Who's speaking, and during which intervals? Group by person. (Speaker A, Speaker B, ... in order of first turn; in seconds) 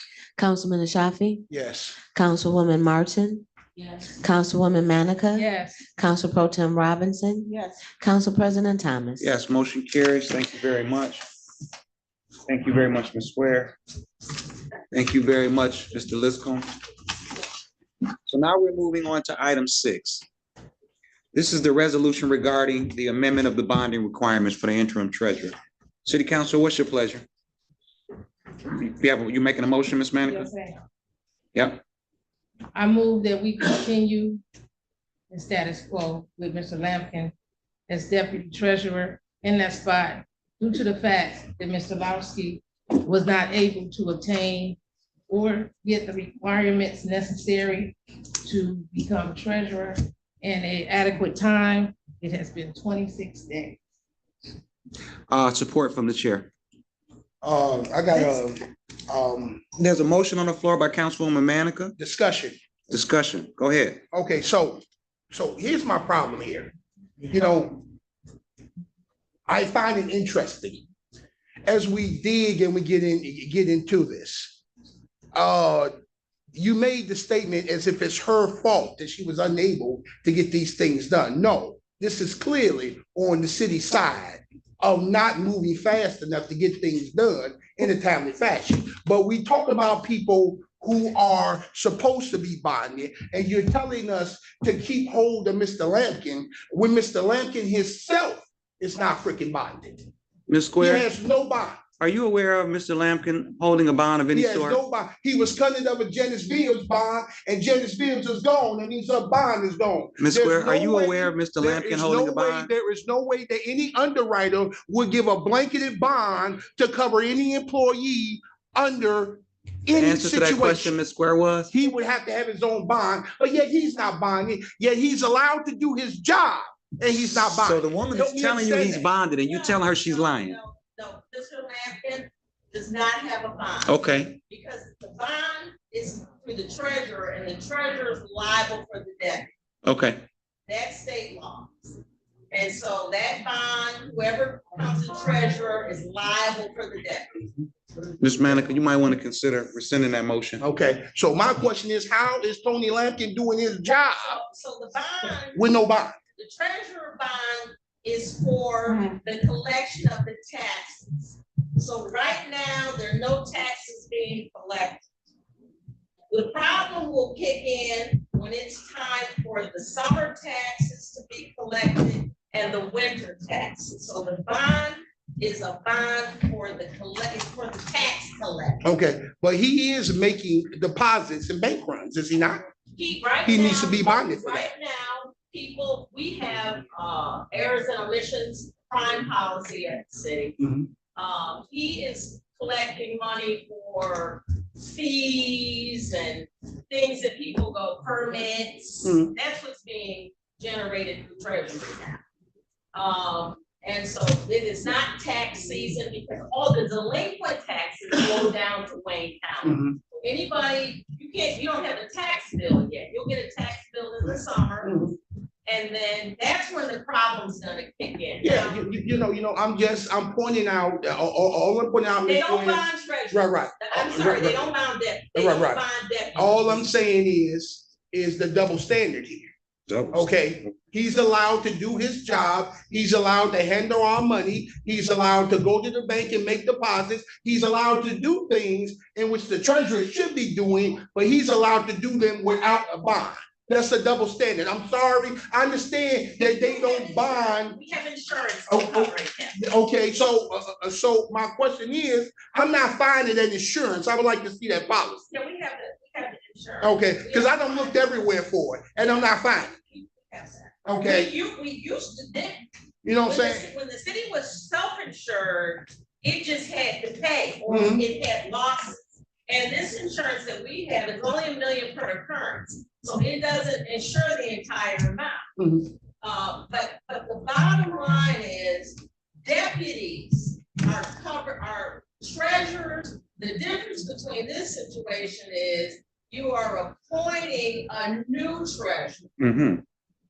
Speaker A: 0.4-1.4, 2.1-3.4, 4.2-9.2
Speaker B: 1.5-2.0, 57.4-59.6, 62.0-62.6, 64.1-64.8, 65.3-66.7, 67.2-67.8, 69.5-70.8, 71.6-74.6, 75.3-75.9, 76.5-100.1, 100.8-101.8, 104.3-120.9, 121.7-129.1, 150.6-154.4, 155.5-156.2, 178.8-182.7, 183.4-184.7, 190.6-190.9, 199.0-199.3, 209.6-210.0, 214.8-215.1, 218.4-224.7, 225.3-225.8, 226.3-229.5, 230.1-247.8, 248.7-255.2, 256.8-259.7, 260.8-261.3, 263.0-263.7, 267.7-268.0, 275.6-275.9
Speaker C: 3.8-4.1, 7.5-7.9, 129.3-139.5, 140.7-142.0, 142.5-147.4, 153.9-155.6, 156.4-165.0, 166.3-178.8, 182.9-190.6, 191.1-202.2, 202.9-215.1, 215.7-218.8, 222.2-226.8, 246.5-249.6, 255.3-258.3, 259.0-262.6, 263.2-275.4, 276.2-289.3
Speaker D: 5.3-5.8, 30.2-30.8, 32.7-34.4, 35.3-37.3, 37.9-44.8, 45.3-53.8
Speaker E: 9.2-11.2, 12.5-13.7, 14.9-16.7, 18.3-20.2, 21.3-27.2, 28.6-30.5, 31.5-31.8, 55.3-56.5, 59.8-61.9, 62.9-64.0, 100.5-101.1, 102.0-104.8, 110.2-112.7, 119.9-121.7, 127.4-130.6, 133.8-134.4, 139.8-140.2, 148.2-150.6, 229.9-230.3, 289.4-289.8